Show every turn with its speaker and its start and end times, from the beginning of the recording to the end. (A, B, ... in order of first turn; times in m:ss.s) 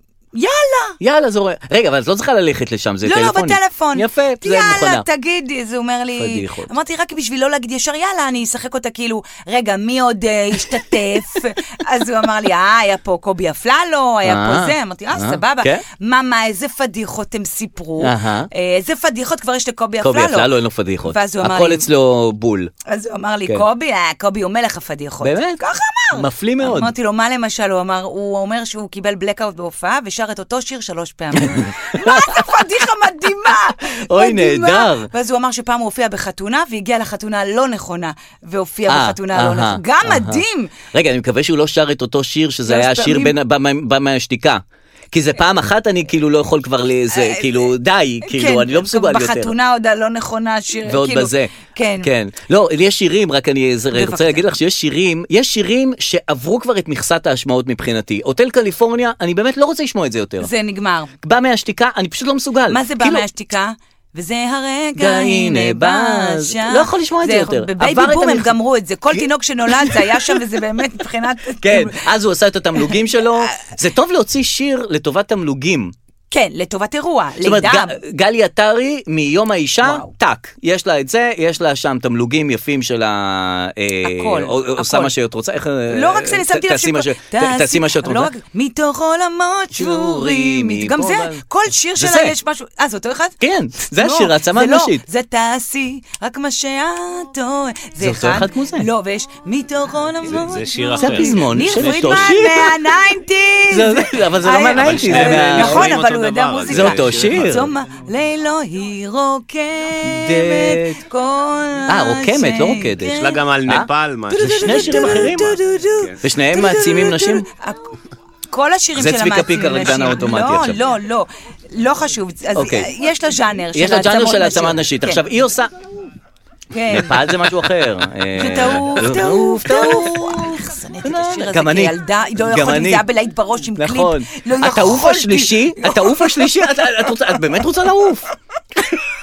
0:00.3-0:01.0 A
0:01.0-0:05.0 B
0:03.0-0:20.5 A
0:06.2-0:06.7 B
0:14.2-0:15.8 B
0:18.0-0:18.5 B
0:20.0-0:22.7 B
0:21.0-0:21.8 A
0:22.9-0:40.7 A
0:25.2-0:25.6 B
0:26.1-0:26.9 B
0:31.3-0:32.8 B
0:33.4-0:35.1 B
0:38.9-0:49.5 B
0:42.6-0:43.3 A
0:47.1-0:47.7 A
0:48.2-0:52.1 A
0:50.8-1:00.5 B
0:53.9-0:54.4 A
1:00.4-1:01.1 A
1:01.2-1:03.2 B
1:02.7-1:12.0 A
1:05.0-1:08.6 B
1:09.1-1:10.4 B
1:11.6-1:15.9 B
1:16.3-1:18.0 A
1:17.4-1:28.3 B
1:19.8-1:20.1 A
1:24.0-1:25.1 A
1:25.9-1:53.5 A
1:29.7-1:31.4 B
1:32.0-1:32.4 B
1:33.4-1:35.0 B
1:38.0-1:38.9 B
1:40.3-1:42.1 C
1:40.9-1:42.9 B
1:43.7-1:46.0 B
1:44.5-1:47.7 C
1:46.7-1:47.7 B
1:50.0-1:51.0 B
1:51.9-1:53.9 B
1:53.0-1:56.2 C
1:54.3-1:57.9 A
1:54.4-1:55.6 B
1:56.2-1:57.4 B
1:58.5-2:05.2 A
1:59.0-2:00.8 B
2:02.5-2:02.9 B
2:03.7-2:05.7 B
2:06.7-2:07.3 A
2:06.9-2:13.1 B
2:08.3-2:17.3 A
2:13.7-2:18.3 B